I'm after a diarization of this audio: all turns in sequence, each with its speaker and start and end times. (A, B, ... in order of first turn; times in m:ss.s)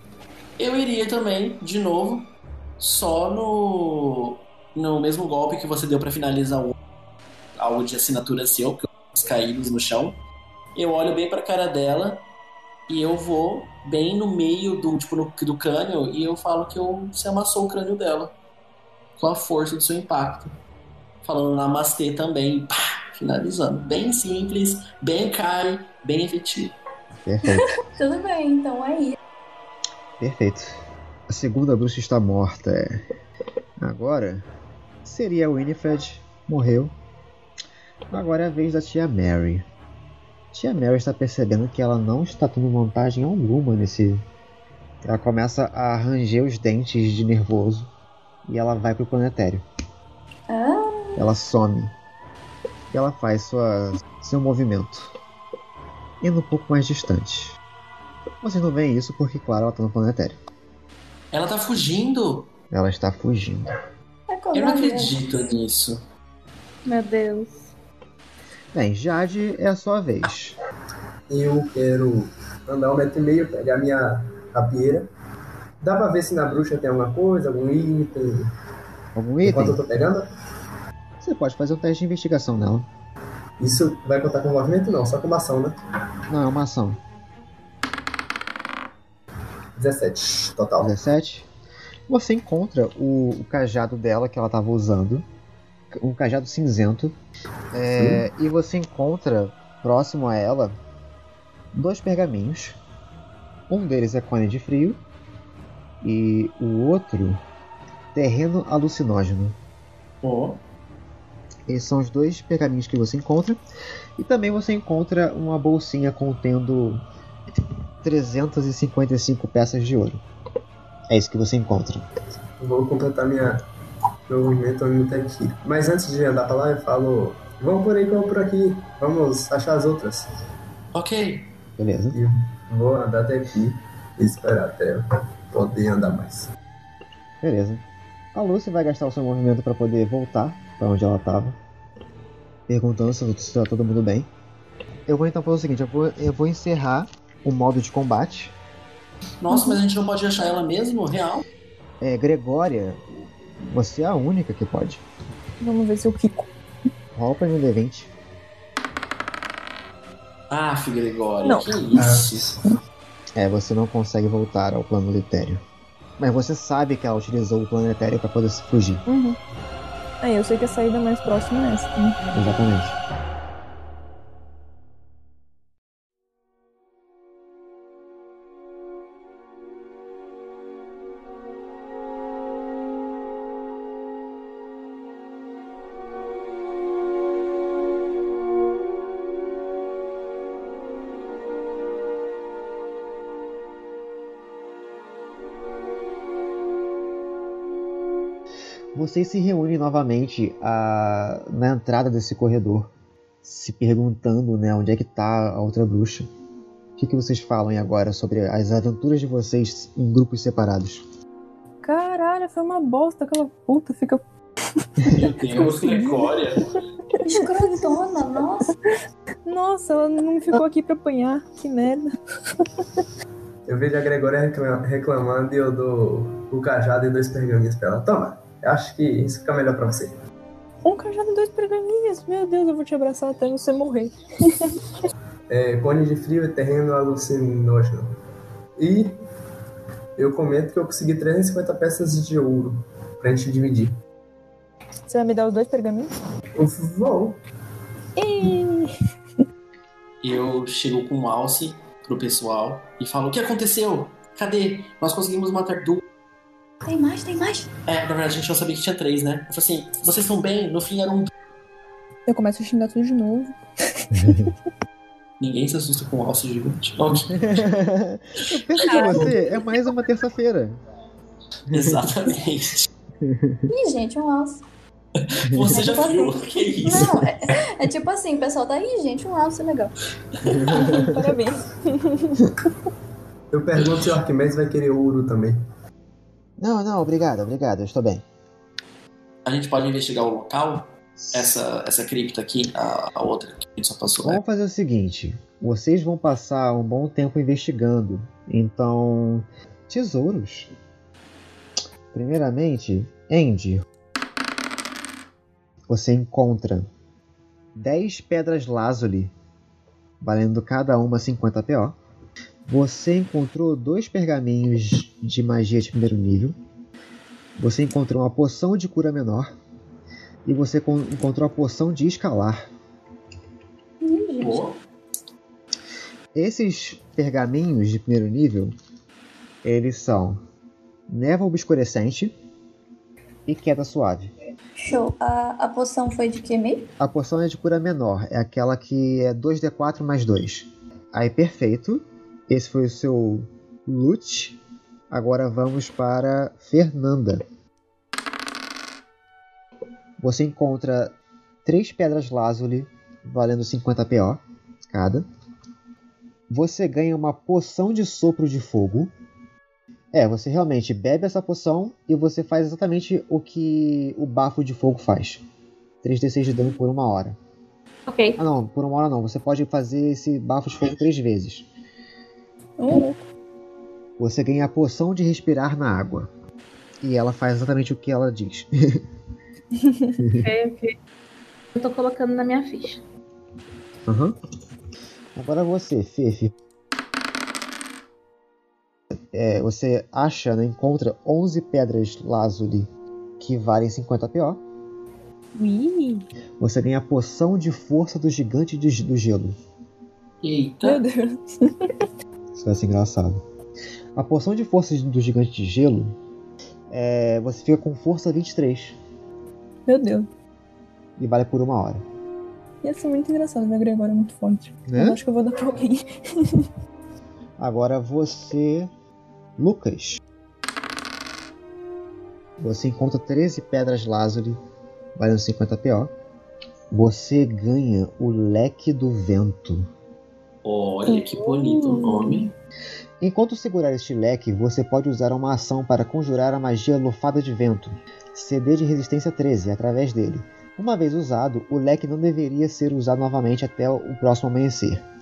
0:00.6-0:06.7 A
0:07.6-0:10.2 A
0:10.8-0:12.2 A
0:12.9-0:18.3 A
0:19.2-0:20.5 A
0:21.2-0:26.8 A
0:27.2-0:27.8 B
0:27.5-0:29.2 C
0:30.2-0:30.8 B
0:31.3-0:33.0 B
0:33.8-0:34.4 B
0:35.0-0:36.9 B
0:38.1-0:39.6 B
0:40.5-0:44.2 B
0:45.0-0:47.9 B
0:48.4-0:49.6 B
0:50.5-0:51.2 C
0:51.2-0:51.9 B
0:52.9-0:55.1 B
0:56.2-0:57.6 B
0:58.4-1:00.4 B
1:01.3-1:02.5 A
1:02.7-1:03.7 B
1:04.3-1:05.2 C
1:04.5-1:06.0 A
1:06.8-1:07.7 D
1:08.7-1:10.6 B
1:11.3-1:15.1 E
1:15.8-1:18.5 E
1:19.1-1:19.8 B
1:19.4-1:20.2 E
1:21.2-1:22.9 B
1:23.6-1:25.8 E
1:26.3-1:27.0 B
1:29.8-1:30.9 E
1:30.8-1:31.5 B
1:32.1-1:35.2 B
1:35.9-1:37.2 B
1:37.7-1:40.8 B
1:41.7-1:42.8 B
1:43.7-1:45.0 B
1:46.0-1:47.4 B
1:48.1-1:49.6 B
1:50.2-1:50.6 A
1:51.7-1:53.6 B
1:54.2-1:57.0 B
1:58.0-2:00.2 B
2:01.1-2:02.0 B
2:02.6-2:03.6 E
2:04.3-2:10.3 E
2:10.9-2:11.5 A
2:11.8-2:12.2 B
2:12.1-2:16.5 E
2:17.4-2:17.8 B
2:18.3-2:21.6 B
2:22.7-2:24.3 B
2:25.1-2:28.5 B
2:29.4-2:31.4 A
2:29.5-2:29.8 F
2:32.0-2:33.0 B
2:33.6-2:35.0 B
2:35.6-2:36.5 F
2:37.1-2:38.1 B
2:40.5-2:42.5 A
2:41.9-2:42.6 E
2:43.4-2:45.6 B
2:46.2-2:49.0 B
2:49.1-2:49.4 F
2:50.2-2:52.2 F
2:52.3-2:53.0 B
3:18.9-3:22.9 B
3:23.4-3:26.3 B
3:27.0-3:31.0 B
3:31.8-3:34.2 F
3:34.8-3:36.4 F
3:35.1-3:36.7 A
3:37.2-3:38.7 C
3:39.4-3:42.1 F
3:42.7-3:43.0 F
3:43.7-3:50.1 E
3:50.8-3:54.7 F
3:55.5-3:58.1 E
3:58.8-3:59.1 E
4:00.2-4:03.9 E
4:05.1-4:06.2 F
4:06.6-4:07.4 E
4:08.2-4:08.9 F
4:10.2-4:16.0 A
4:16.8-4:17.7 C
4:17.8-4:21.3 A
4:22.3-4:24.5 F
4:24.1-4:24.5 B
4:25.4-4:27.7 A
4:27.3-4:30.8 B
4:28.8-4:29.4 D
4:31.7-4:32.9 A
4:31.7-4:32.2 B
4:33.2-4:33.7 B
4:33.7-4:34.6 C
4:35.2-4:37.5 A
4:35.5-4:35.8 B
4:35.7-4:39.9 C
4:40.4-4:41.4 B
4:40.7-4:42.4 F
4:43.5-4:45.6 E
4:46.6-4:48.2 B
4:49.4-4:54.4 A
4:51.2-4:51.6 B
4:54.2-5:00.7 B
5:02.1-5:03.8 B
5:05.9-5:06.9 B
5:07.7-5:09.3 B
5:10.2-5:12.0 B
5:12.7-5:16.6 B
5:17.6-5:19.5 B
5:20.4-5:22.6 B
5:24.0-5:24.6 C
5:24.4-5:24.8 A
5:26.3-5:28.7 B
5:29.6-5:30.4 B
5:31.1-5:32.3 B
5:33.4-5:34.3 B
5:34.8-5:36.9 C
5:37.0-5:44.6 B
5:45.1-5:47.4 B
5:50.2-5:55.3 B
5:56.5-5:59.1 B
6:00.1-6:05.4 B
6:06.0-6:07.4 B
6:08.1-6:08.4 D
6:08.4-6:11.7 B
6:12.8-6:13.2 F
6:14.2-6:16.3 B
6:17.0-6:19.0 B
6:20.2-6:20.5 B
6:20.3-6:20.9 D
6:21.8-6:23.0 D
6:24.1-6:24.3 B
6:25.4-6:26.5 B
6:29.3-6:34.6 B
6:35.6-6:36.2 F
6:36.6-6:39.6 B
6:40.4-6:41.0 A
6:40.8-6:42.0 F
6:42.5-6:43.4 B
6:44.1-6:46.1 B
6:46.9-6:49.0 B
6:49.9-6:50.3 F
6:51.2-6:52.0 B
6:52.8-6:56.7 F
6:54.9-6:55.2 B
6:57.6-6:58.9 B
6:59.6-7:00.2 B
7:02.6-7:04.6 B
7:05.2-7:06.1 B
7:06.9-7:09.9 B
7:10.6-7:12.5 A
7:11.1-7:12.4 F
7:13.2-7:25.0 B